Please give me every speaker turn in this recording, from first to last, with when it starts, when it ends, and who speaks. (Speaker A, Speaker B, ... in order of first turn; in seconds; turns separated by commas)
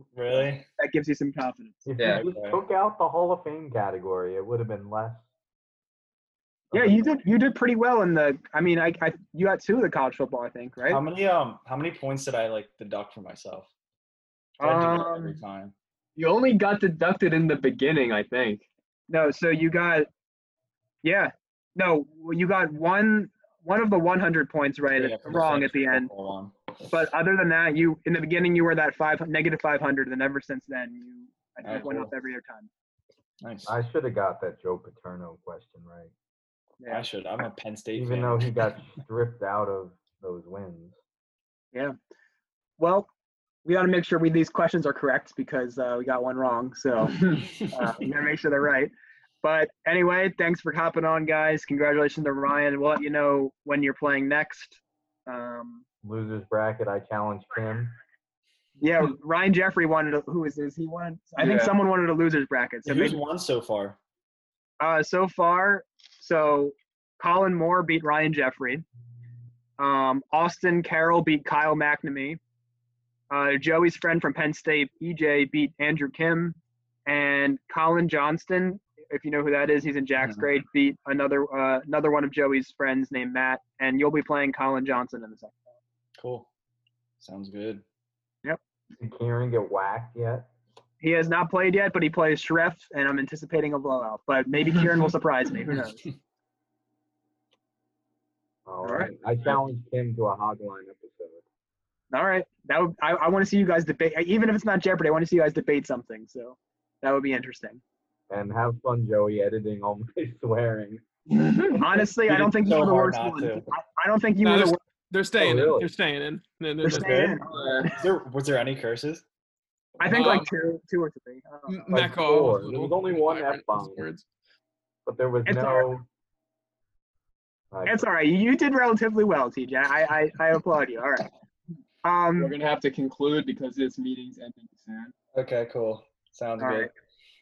Speaker A: 0.1-0.7, Speaker B: 0.8-1.9, Speaker C: 1.9-5.2, Speaker A: 2.1-2.6, Speaker C: 6.7-7.1, Speaker B: 6.7-11.0, Speaker A: 10.9-13.7, Speaker A: 14.6-15.7, Speaker B: 14.6-15.4, Speaker D: 16.2-18.7, Speaker B: 19.1-20.1, Speaker B: 21.0-26.1, Speaker A: 24.9-26.6, Speaker B: 26.9-32.7, Speaker A: 31.6-32.1, Speaker A: 33.4-33.8, Speaker C: 33.7-36.1, Speaker B: 36.8-37.1, Speaker A: 36.9-38.8, Speaker C: 38.0-41.0, Speaker B: 42.8-43.1, Speaker B: 43.6-55.8, Speaker C: 56.0-58.0, Speaker B: 58.8-63.2, Speaker D: 61.4-61.7, Speaker A: 62.9-64.0, Speaker B: 64.8-68.8, Speaker B: 69.8-72.4, Speaker B: 73.3-85.8, Speaker A: 86.2-86.5, Speaker A: 87.2-87.8, Speaker C: 89.0-90.5, Speaker B: 91.0-96.0, Speaker C: 98.7-101.4, Speaker B: 98.8-99.2, Speaker B: 102.1-107.8, Speaker C: 108.3-111.0, Speaker D: 111.3-111.8, Speaker B: 111.8-114.8, Speaker A: 112.1-113.7, Speaker E: 114.4-117.3, Speaker C: 115.4-115.9, Speaker B: 116.8-117.8, Speaker A: 116.8-119.2, Speaker D: 117.5-118.0, Speaker B: 120.0-122.1, Speaker E: 120.1-120.5, Speaker E: 121.7-124.2, Speaker C: 121.9-124.1, Speaker C: 125.1-126.1, Speaker B: 125.5-125.9, Speaker C: 127.7-128.1, Speaker B: 127.9-131.3, Speaker B: 132.0-132.6, Speaker D: 132.4-135.1, Speaker A: 135.3-136.9, Speaker B: 136.6-136.9